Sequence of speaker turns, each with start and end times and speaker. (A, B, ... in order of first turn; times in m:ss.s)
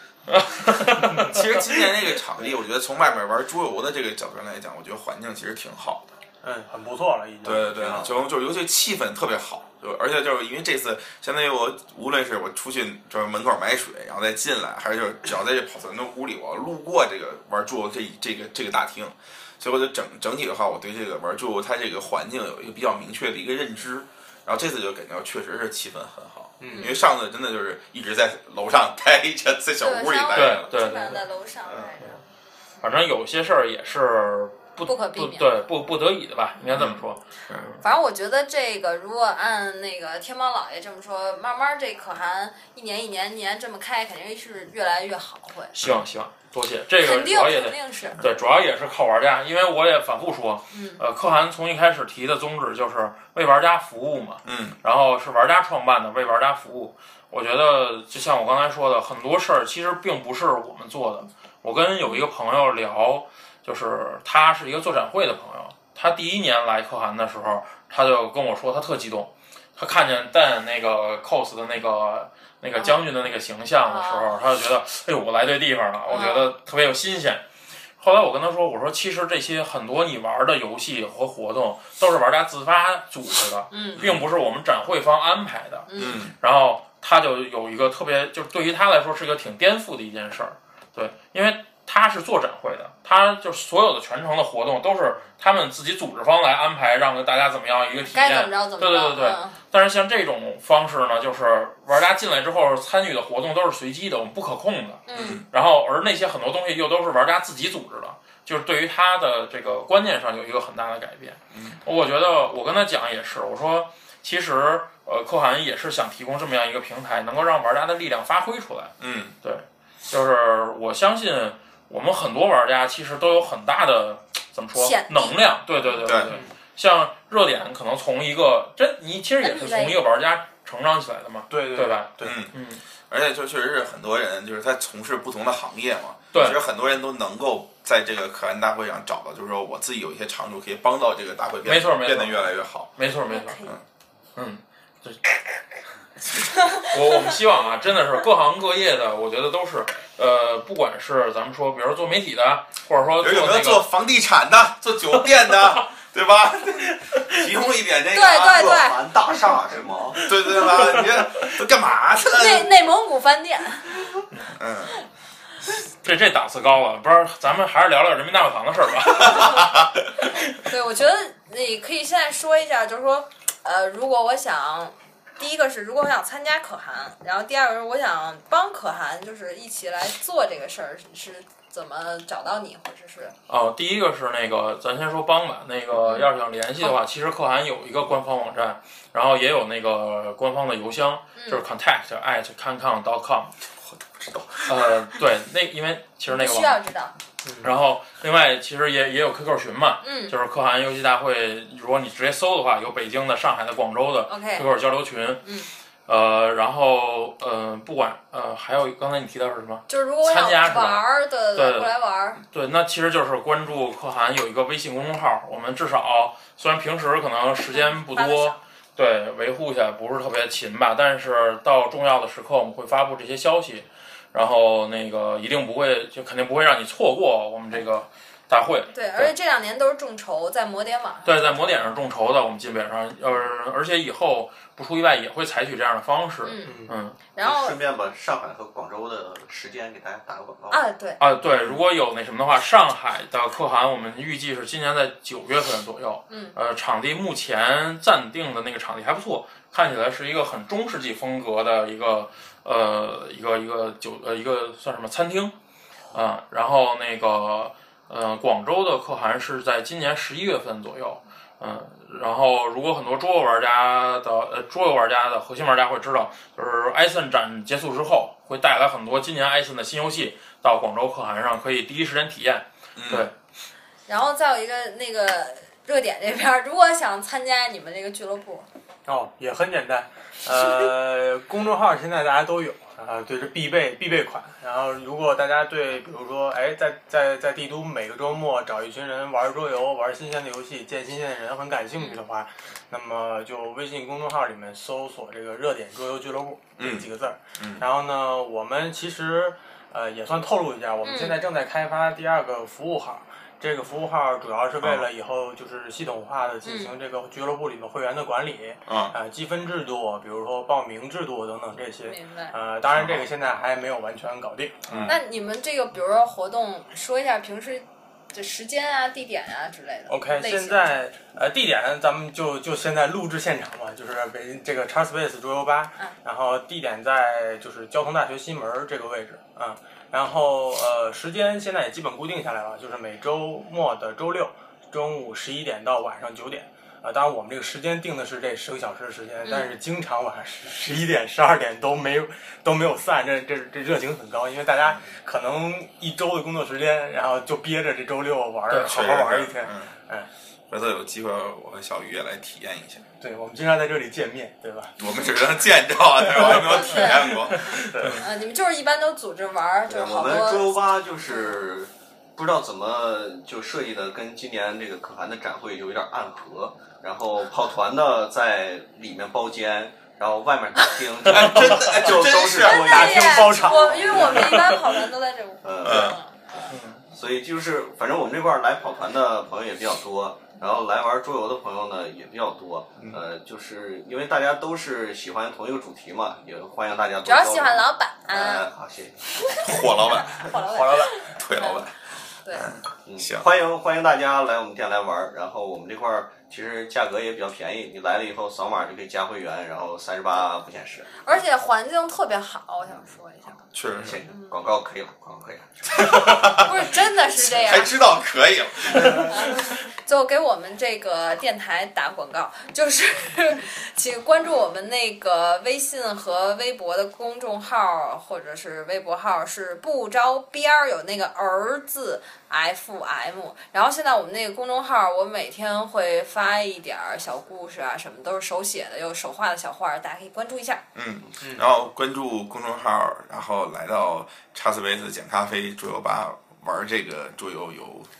0:00.3-0:01.6 A
0:01.2-0:06.1 B
0:06.4-0:07.7 C
0:07.4-0:30.7 B
0:07.5-0:08.1 D
0:26.6-0:26.9 C
0:26.7-0:27.0 E
0:29.8-0:32.2 E
0:30.4-0:31.2 A
0:32.8-0:37.8 A
0:34.8-0:35.5 E
0:37.8-0:45.8 E
0:45.8-1:17.4 A
0:47.0-0:48.2 E
0:50.7-0:51.0 E
0:54.4-0:54.8 B
1:12.8-1:13.1 E
1:13.8-1:14.4 E
1:16.1-1:16.5 E
1:18.0-2:12.8 A
1:23.7-1:24.1 E
1:24.0-1:24.2 B
1:25.9-1:26.3 E
1:26.0-1:26.3 B
1:38.1-1:39.6 E
1:45.1-1:45.4 E
1:45.1-1:45.4 B
1:51.5-1:51.8 B
1:59.0-1:59.4 B
2:04.8-2:05.4 E
2:06.0-2:06.4 B
2:09.4-2:10.0 E
2:11.5-2:12.4 C
2:12.2-2:12.5 B
2:13.1-2:22.9 B
2:16.3-2:16.6 A
2:21.6-2:23.6 A
2:23.3-2:23.8 E
2:24.4-2:25.2 A
2:26.8-2:33.9 A
2:33.2-2:39.0 B
2:38.1-2:39.0 E
2:38.5-2:40.3 D
2:40.2-2:42.7 B
2:42.3-2:43.9 E
2:44.6-2:45.0 B
2:46.0-2:49.6 A
2:49.4-2:49.8 B
2:50.6-3:03.4 E
3:03.5-3:13.5 A
3:11.4-3:11.6 E
3:13.8-3:15.1 B
3:14.7-3:16.8 A
3:16.3-3:17.1 E
3:17.4-3:17.7 C
3:17.6-3:25.4 A
3:20.0-3:20.4 E
3:24.3-3:24.7 E
3:25.4-3:25.7 E
3:26.1-3:49.3 A
3:29.9-3:32.4 E
3:37.7-3:38.6 E
3:48.9-3:51.6 E
3:51.3-3:57.2 A
3:56.4-3:57.8 E
3:56.6-3:57.0 C
3:57.4-4:00.8 D
4:00.7-4:01.2 E
4:01.2-4:15.6 A
4:06.3-4:06.6 E
4:16.1-4:33.3 A
4:33.0-4:33.3 B
4:34.1-4:38.7 E
4:39.1-5:15.1 C
4:56.8-4:57.8 B
5:01.0-5:01.4 E
5:04.8-5:05.1 B
5:06.6-5:06.9 E
5:08.9-5:09.2 B
5:12.0-5:12.6 E
5:12.9-5:13.3 B
5:14.9-5:15.2 B
5:15.1-5:20.9 E
5:20.1-5:50.3 C
5:39.4-5:39.7 E
5:48.9-5:49.9 B
5:50.7-5:53.0 B
5:53.2-5:55.0 C
5:55.0-5:57.7 B
5:56.2-5:58.3 C
5:56.5-5:57.3 E
5:58.2-6:01.5 E
5:59.9-6:14.6 D
6:11.2-6:13.2 B
6:12.2-6:16.5 E
6:12.8-6:14.6 C
6:15.6-6:30.4 D
6:15.8-6:16.2 B
6:16.7-6:17.0 A
6:27.2-6:28.7 E
6:29.5-6:31.9 E
6:29.6-6:32.0 B
6:32.5-6:33.5 B
6:33.0-6:41.4 D
6:41.2-6:43.7 E
6:43.7-6:44.2 B
6:43.9-6:46.0 D
6:44.3-6:44.6 E
6:45.9-6:46.8 B
6:46.4-6:48.0 E
6:47.4-6:49.7 B
6:49.3-7:10.8 E
7:11.0-7:18.1 B
7:11.4-7:11.7 C